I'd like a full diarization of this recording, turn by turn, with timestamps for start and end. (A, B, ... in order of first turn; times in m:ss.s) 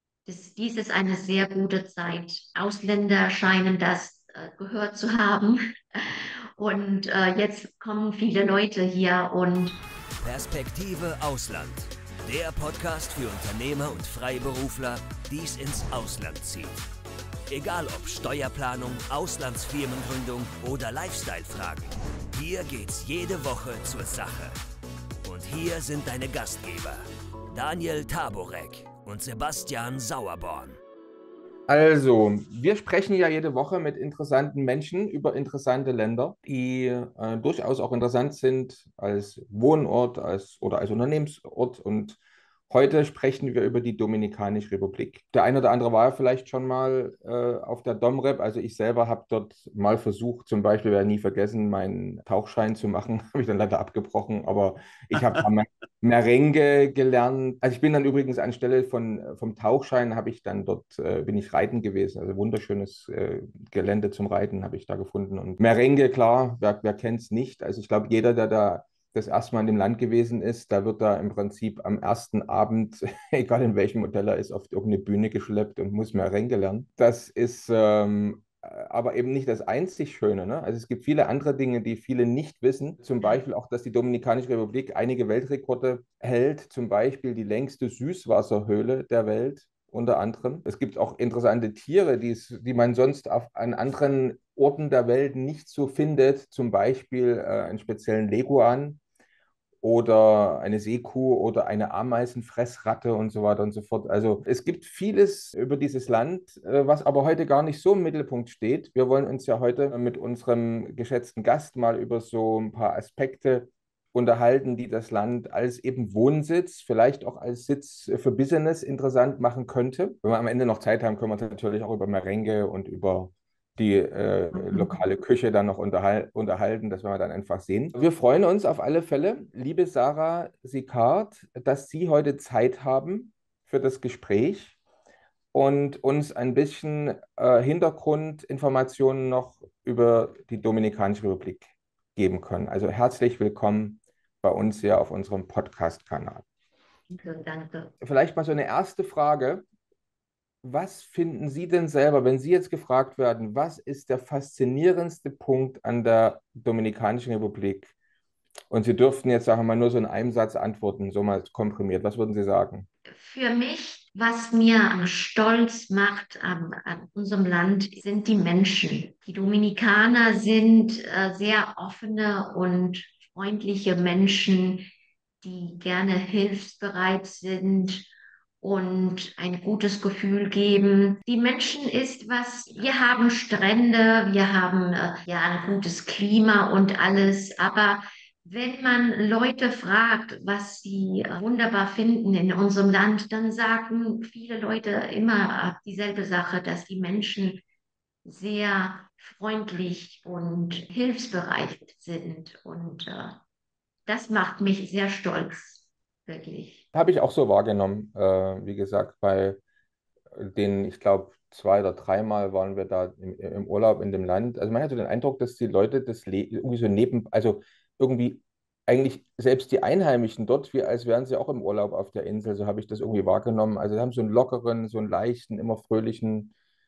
0:00.2-0:09.8 A
0:10.2-0:16.8 B
0:17.5-0:24.5 B
0:25.2-0:30.8 B
0:31.7-0:42.2 C
0:42.7-1:39.0 C
1:39.8-2:14.7 C
2:04.5-2:05.0 A
2:15.5-2:26.4 C
2:27.1-2:27.9 A
2:28.0-2:29.6 C
2:30.6-2:37.9 C
2:38.7-2:42.9 C
2:43.1-2:54.9 A
2:55.4-2:58.1 A
2:58.6-3:17.6 A
3:18.2-3:23.4 A
3:24.1-3:26.8 A
3:26.9-3:29.6 C
3:30.3-3:46.5 C